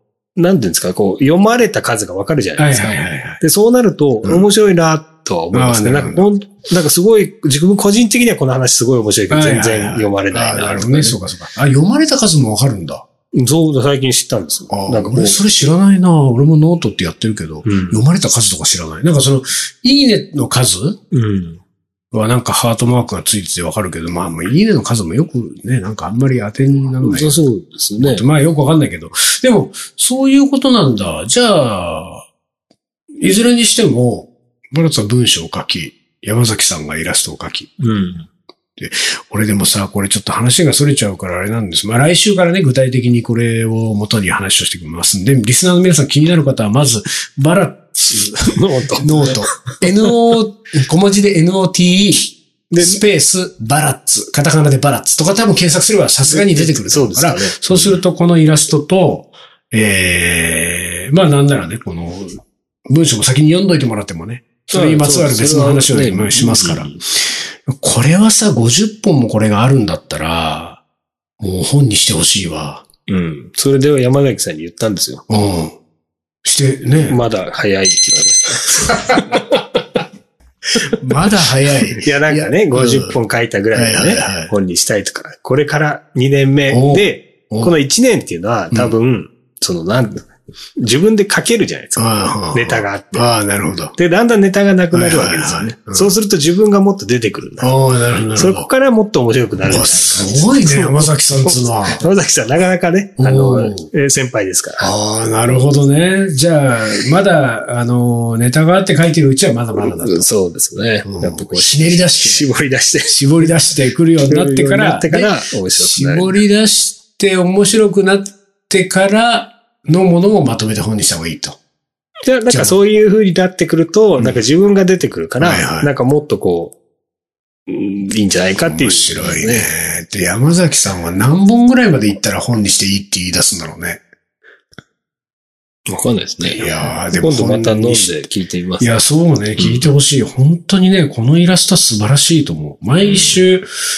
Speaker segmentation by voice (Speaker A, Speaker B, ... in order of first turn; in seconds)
Speaker A: 0.4-11.2, 13.3-15.4, 17.6-18.0, 21.1-21.6, 27.0-28.2, 37.8-38.3, 48.5-49.4, 52.7-53.0, 56.2-58.0, 64.7-67.0, 73.1-75.2, 77.1-79.6, 82.0-90.2, 90.8-93.3, 94.0-97.7, 98.3-104.9, 109.8-113.5, 114.3-116.4, 122.2-126.8, 127.7-129.7, 135.9-139.0, 139.6-139.9, 143.0-143.4
Speaker B: 2.6-3.4, 5.5-6.3, 9.3-13.1, 14.7-21.0, 22.1-27.4, 28.0-32.2, 33.2-37.7, 38.8-70.8, 71.4-72.8, 75.3-75.8, 76.4-77.2, 81.0-83.2, 83.7-84.5, 86.7-87.8, 92.0-94.0, 94.9-96.1, 97.6-98.7, 99.7-102.0, 103.2-103.9, 104.8-110.3, 111.0-112.5, 113.0-121.6, 122.5-122.8, 125.4-125.9, 128.6-134.0, 136.4-138.2, 138.8-143.7